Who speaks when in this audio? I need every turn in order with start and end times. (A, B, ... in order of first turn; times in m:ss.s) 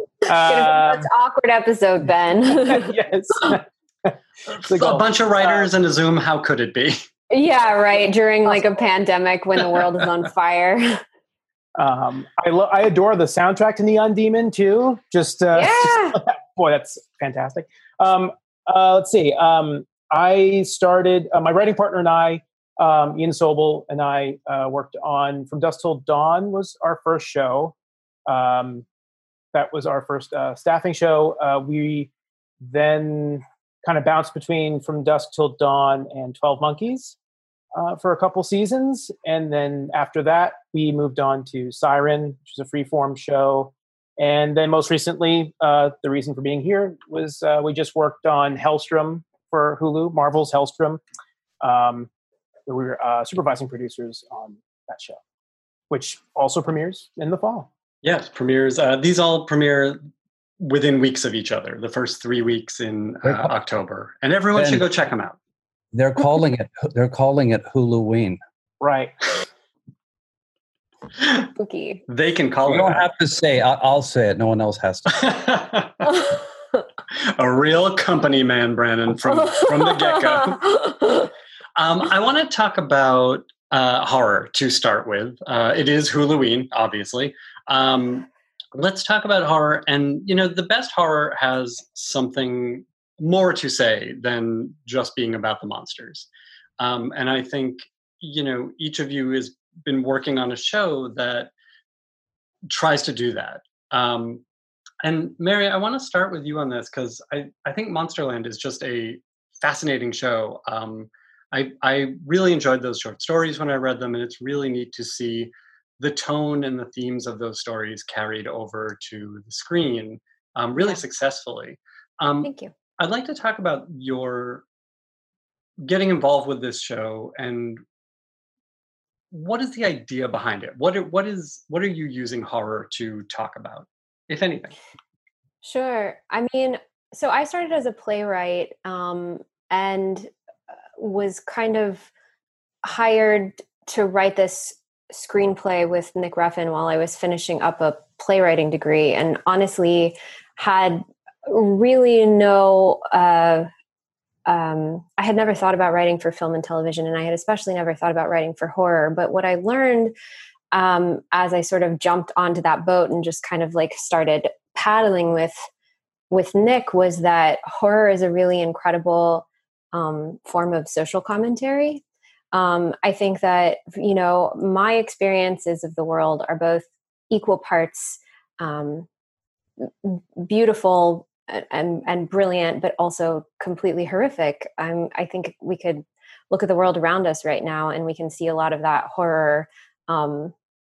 0:00.3-0:01.1 A
0:00.4-0:02.9 B
0:02.5-0:05.7 A
0:04.6-0:07.0 C
0:07.3-0:11.0 B
0:11.8-0:27.8 A
0:15.5-0:16.2 B
0:28.3-0:28.8 A
0:29.5-0:32.1 A
0:32.6-0:37.2 A
0:37.8-0:51.0 A
0:51.6-0:52.1 A
0:52.7-0:55.2 A
0:55.9-0:57.7 A
0:58.0-1:00.0 C
1:00.6-1:05.4 C
1:03.2-1:03.5 D
1:04.6-1:04.8 D
1:05.9-1:08.4 D
1:08.8-1:09.2 A
1:11.6-1:12.0 B
1:12.1-1:13.1 C
1:12.7-1:15.2 D
1:15.1-1:16.1 C
1:17.4-1:20.8 C
1:21.8-1:36.3 C
1:36.8-1:41.5 C
1:42.7-1:44.4 C
1:45.0-2:04.6 C
2:02.4-2:02.7 B
2:05.8-2:07.8 C
2:09.3-2:14.8 C
2:15.6-2:20.3 B
2:21.0-2:22.1 B
2:22.8-2:33.7 B
2:34.5-2:40.1 B
2:40.7-2:45.7 B
2:46.3-2:52.0 B
2:52.5-2:59.1 B
2:59.8-3:10.5 B